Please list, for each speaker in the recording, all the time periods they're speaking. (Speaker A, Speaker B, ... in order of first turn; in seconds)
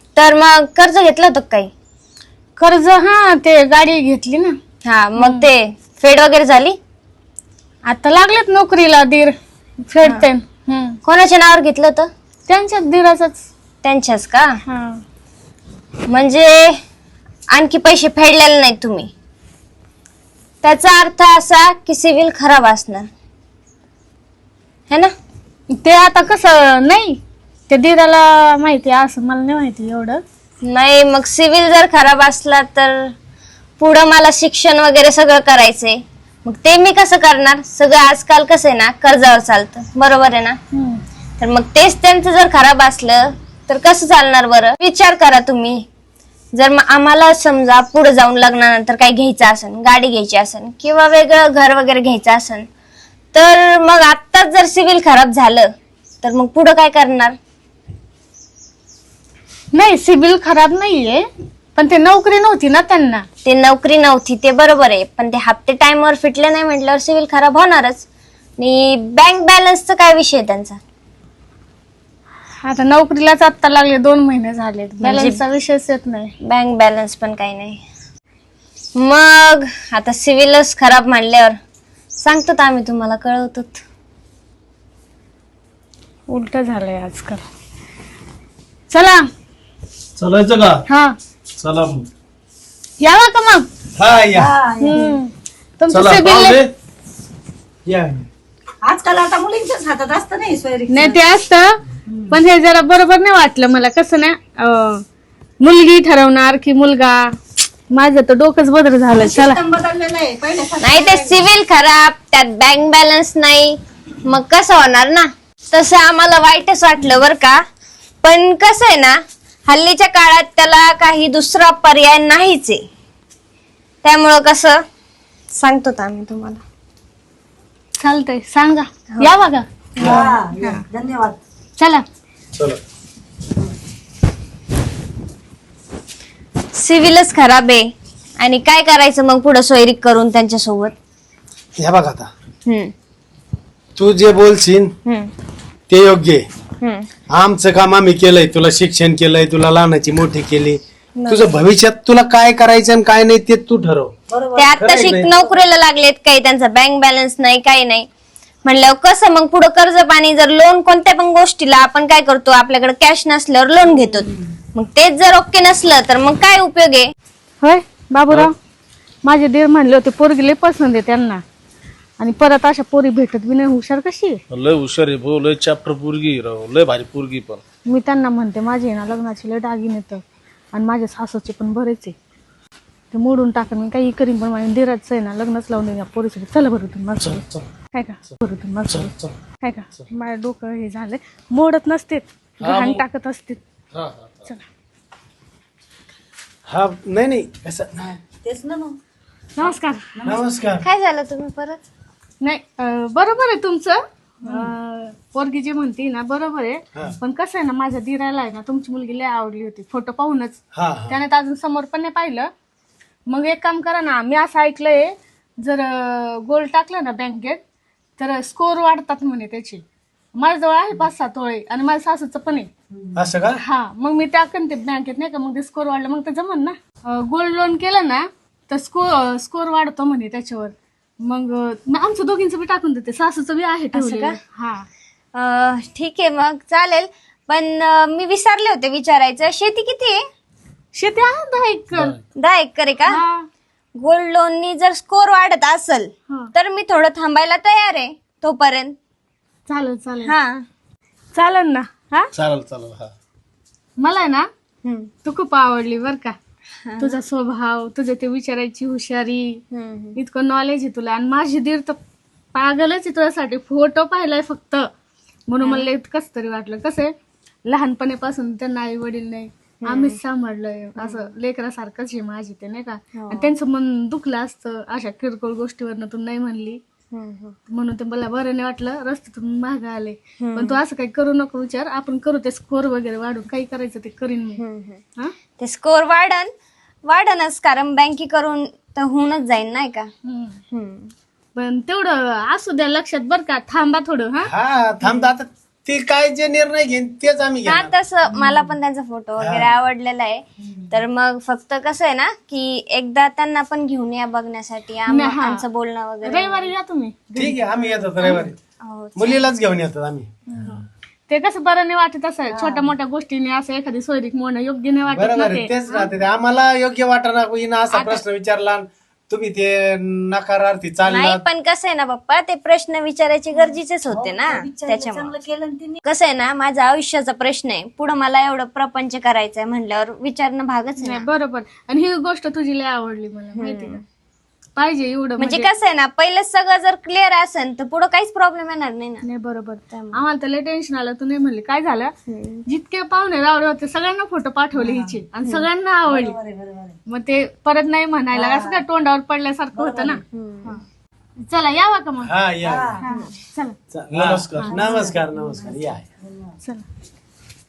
Speaker A: 0.2-1.7, 4.8-6.8, 11.1-12.1, 13.8-14.6, 16.1-16.8, 17.5-19.1, 20.6-23.1, 30.6-33.1, 33.8-40.6, 41.4-45.8, 46.5-52.7, 53.3-55.7, 56.2-57.4, 63.5-68.1, 68.6-70.8, 75.0-75.4, 76.4-77.8, 79.0-81.6, 82.2-83.8, 110.8-117.6, 118.2-122.8, 124.0-124.8, 125.5-126.6, 136.7-140.9, 142.7-142.9, 145.1-145.3, 146.8-147.1, 151.2-151.5, 154.5-158.1, 158.7-167.1, 200.8-201.8, 233.9-234.4, 235.3-240.2, 242.4-243.2, 244.0-249.0, 250.2-250.7, 254.8-255.1, 256.9-257.2, 259.7-260.2, 265.6-265.9, 269.8-270.2, 271.0-271.3, 273.1-273.5, 277.1-277.6, 280.4-280.8, 284.6-285.0, 285.6-286.5, 287.1-290.1, 290.7-291.1, 297.6-306.7, 308.2-309.5, 321.0-325.4, 326.1-331.3, 333.6-334.0, 335.4-339.3, 339.9-340.2, 342.3-342.6, 350.3-350.8
Speaker B: 2.6-4.6, 5.2-5.5, 7.9-11.0, 12.5-13.5, 14.7-15.0, 25.7-30.2, 40.7-41.0, 59.7-63.3, 72.6-76.3, 86.3-87.4, 88.9-89.2, 90.9-91.1, 93.0-93.7, 94.8-96.6, 100.9-101.8, 102.3-105.0, 105.6-107.3, 107.9-109.6, 128.0-130.8, 131.8-132.0, 167.6-168.5, 169.2-171.4, 172.2-174.4, 177.9-180.2, 180.7-182.2, 183.1-193.6, 199.6-200.1, 202.4-212.5, 213.3-217.6, 218.2-219.8, 220.4-222.7, 223.6-234.9, 240.9-242.2, 243.1-243.5, 249.7-250.3, 251.3-252.3, 254.0-254.5, 255.2-256.4, 257.0-259.6, 260.2-262.0, 262.5-264.9, 265.5-267.1, 267.6-276.8, 277.7-284.6, 290.2-290.6, 291.6-294.5, 295.0-295.3, 305.1-305.6, 306.2-308.4, 310.5-316.1, 317.9-318.2, 331.0-334.0, 334.8-335.7, 339.2-342.1, 342.7-346.4, 347.1-350.8, 351.4-352.3, 353.0-353.8, 354.6-355.1
Speaker C: 90.2-90.8, 91.6-92.1, 95.9-96.7, 174.5-177.6, 187.2-187.7, 188.9-189.3, 192.6-193.0, 193.9-194.5, 252.3-253.1, 354.1-354.8
Speaker D: 94.0-94.5, 97.9-98.3, 141.8-142.3, 144.0-144.9, 145.9-146.4, 147.3-154.1, 154.8-155.3, 196.7-198.2, 200.2-200.9, 210.8-211.2, 223.2-223.6, 294.5-297.9, 299.4-299.7, 307.4-308.6, 309.2-310.8, 315.1-321.4, 352.2-353.0, 353.9-356.1
Speaker E: 94.3-95.2, 98.8-101.2, 102.1-102.3, 109.2-111.4, 130.0-131.4, 154.3-155.6, 198.4-199.0, 200.2-200.5, 204.4-204.7, 312.6-312.9, 324.1-326.0, 344.8-345.2, 346.1-347.0, 348.3-348.8, 349.8-350.2, 352.6-353.1, 354.7-356.5